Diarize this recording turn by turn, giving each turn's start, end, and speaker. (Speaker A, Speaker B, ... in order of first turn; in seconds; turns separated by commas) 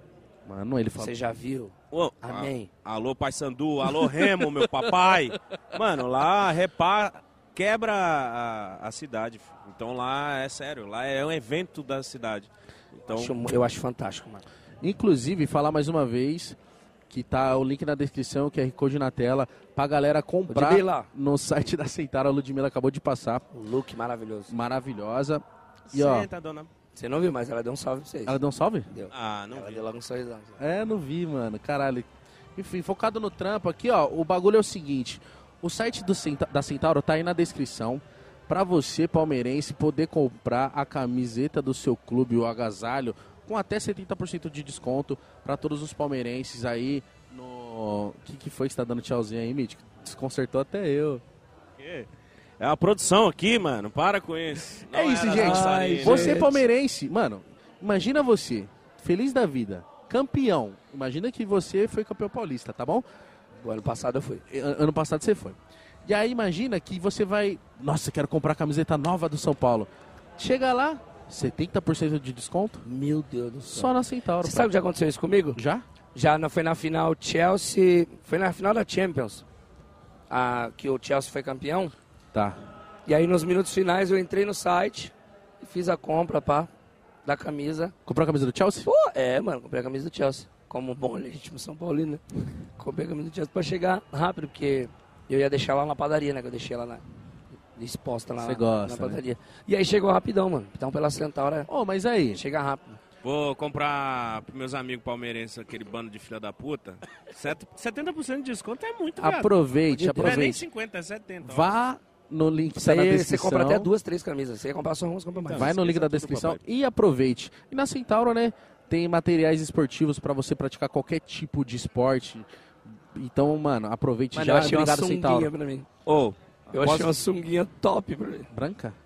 Speaker A: 0.5-1.2, Speaker B: 1.0-2.7, Speaker C: 1.9-13.4, Speaker B: 13.2-14.4, Speaker A: 14.8-16.6, Speaker A: 17.1-23.4, Speaker B: 20.5-21.1, Speaker B: 23.5-24.5, Speaker A: 24.5-26.3, Speaker C: 25.9-26.7, Speaker B: 26.9-28.4, Speaker A: 28.3-28.9, Speaker B: 28.9-30.6, Speaker C: 29.1-29.8, Speaker A: 30.6-51.2, Speaker C: 51.8-52.1, Speaker C: 52.6-56.5, Speaker A: 54.9-63.0, Speaker B: 55.3-56.6, Speaker B: 63.6-64.4, Speaker A: 64.5-72.8, Speaker B: 72.8-75.6, Speaker A: 73.7-74.7, Speaker A: 75.6-75.8, Speaker B: 76.2-79.4, Speaker B: 80.3-81.9, Speaker A: 82.3-82.6, Speaker B: 83.1-86.7, Speaker B: 87.2-87.9, Speaker A: 88.1-88.9, Speaker B: 88.9-92.2, Speaker B: 92.8-97.0, Speaker B: 97.8-101.7, Speaker A: 98.4-99.2, Speaker A: 101.7-102.4, Speaker B: 102.3-103.0, Speaker C: 103.2-109.5, Speaker A: 109.2-110.6, Speaker B: 109.9-110.5, Speaker C: 110.2-111.7, Speaker A: 111.4-113.9, Speaker B: 112.8-115.7, Speaker C: 115.4-116.6, Speaker A: 115.5-122.5, Speaker A: 123.1-125.5, Speaker B: 124.3-125.9, Speaker C: 126.1-126.4, Speaker A: 126.7-127.1, Speaker B: 126.7-128.5, Speaker A: 128.5-129.0